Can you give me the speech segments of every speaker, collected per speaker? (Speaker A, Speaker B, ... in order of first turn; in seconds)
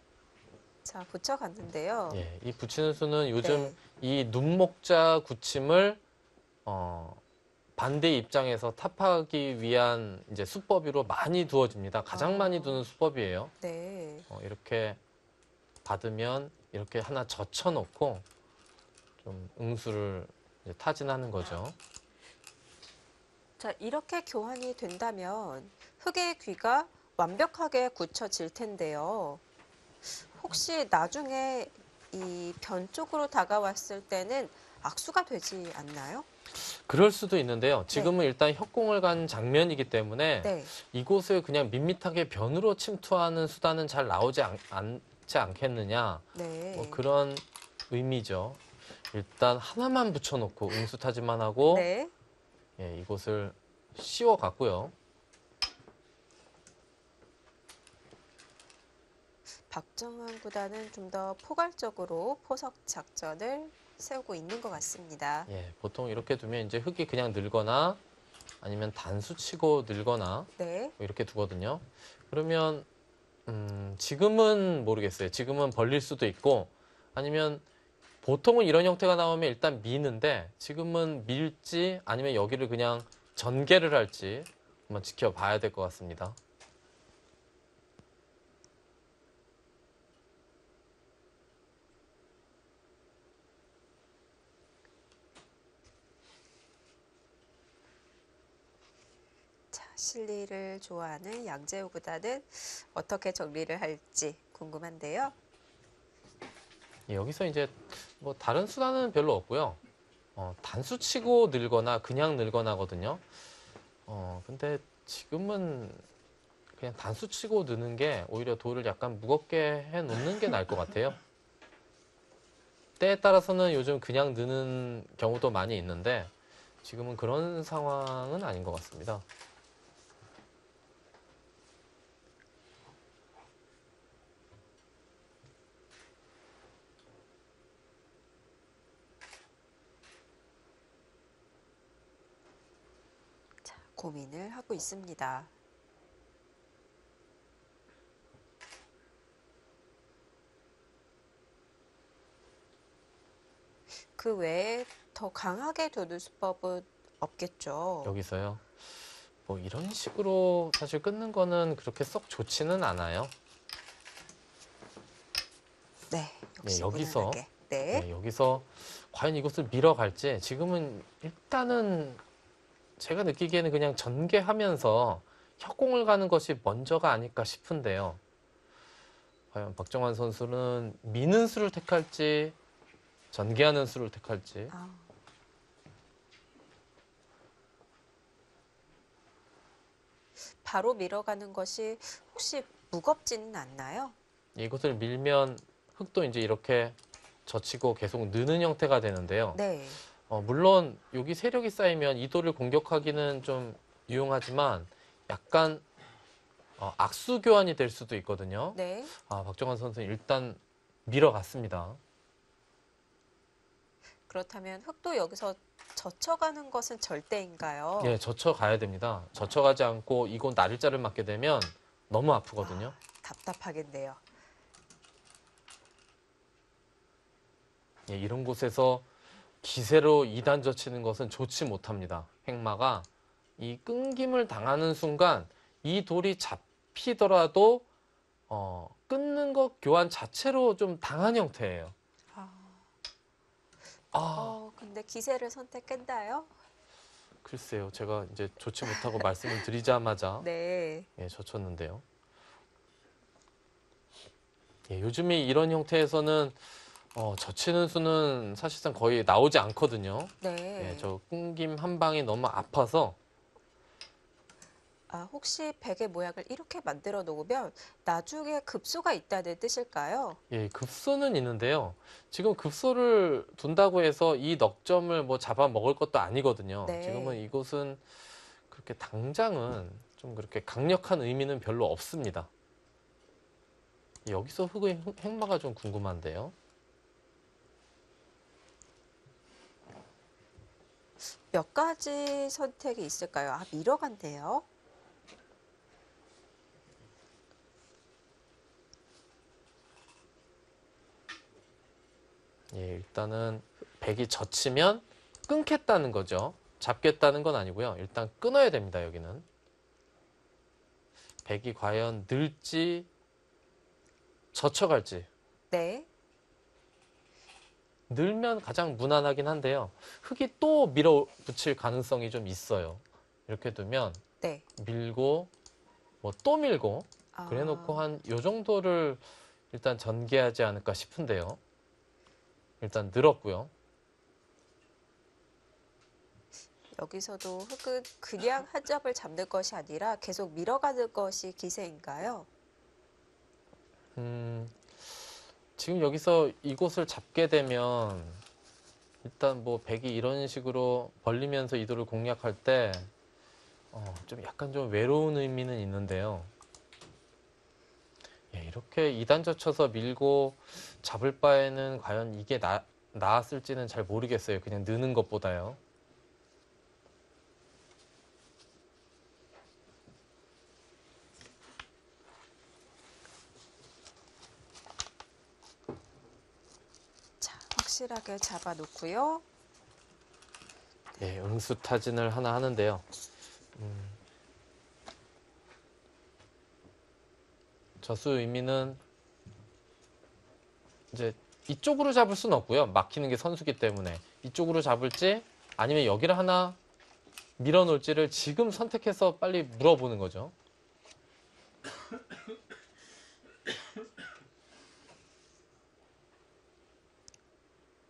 Speaker A: 0.8-2.2, 3.4-3.8, 12.1-12.9, 13.6-14.3, 23.6-29.4, 30.1-36.3, 40.4-40.7, 46.3-47.0, 51.7-52.1, 59.7-65.5, 70.6-70.9, 99.7-105.3, 143.6-145.5, 154.2-158.1, 166.1-168.1, 184.7-185.1, 190.6-194.1, 199.5-200.0, 208.7-209.1, 214.3-218.2, 222.6-224.2, 242.3-242.8, 244.3-246.5, 248.8-249.3, 250.4-251.1, 260.4-261.1, 265.1-270.4, 276.8-277.4, 291.5-294.6, 315.7-316.1, 324.4-324.6, 327.3-328.0, 336.9-342.5, 377.4-379.4
Speaker B: 2.1-6.0, 6.7-7.2, 7.8-13.5, 14.3-15.0, 15.8-18.2, 19.2-21.8, 36.5-51.9, 52.8-54.9, 65.5-68.0, 68.6-72.9, 73.5-77.6, 78.2-86.4, 107.1-109.8, 110.3-113.2, 114.1-116.0, 116.7-121.2, 123.0-126.3, 126.8-129.2, 158.0-163.3, 166.6-172.2, 173.0-178.2, 179.5-182.6, 183.3-184.7, 194.6-199.6, 200.2-205.8, 206.8-212.0, 218.0-222.9, 228.1-229.1, 229.6-233.1, 233.6-237.8, 238.5-241.9, 244.1-244.6, 247.4-250.4, 251.2-252.0, 254.9-263.2, 270.5-282.5, 284.2-286.5, 302.7-309.4, 311.4-313.1, 314.5-315.3, 318.1-324.2, 324.8-325.5, 326.2-331.6, 332.8-333.7, 344.1-345.2, 345.8-348.4, 349.2-353.1, 353.9-356.5, 358.5-365.8, 381.2-383.1, 383.8-384.2, 388.0-389.0, 391.1-396.8, 397.6-400.5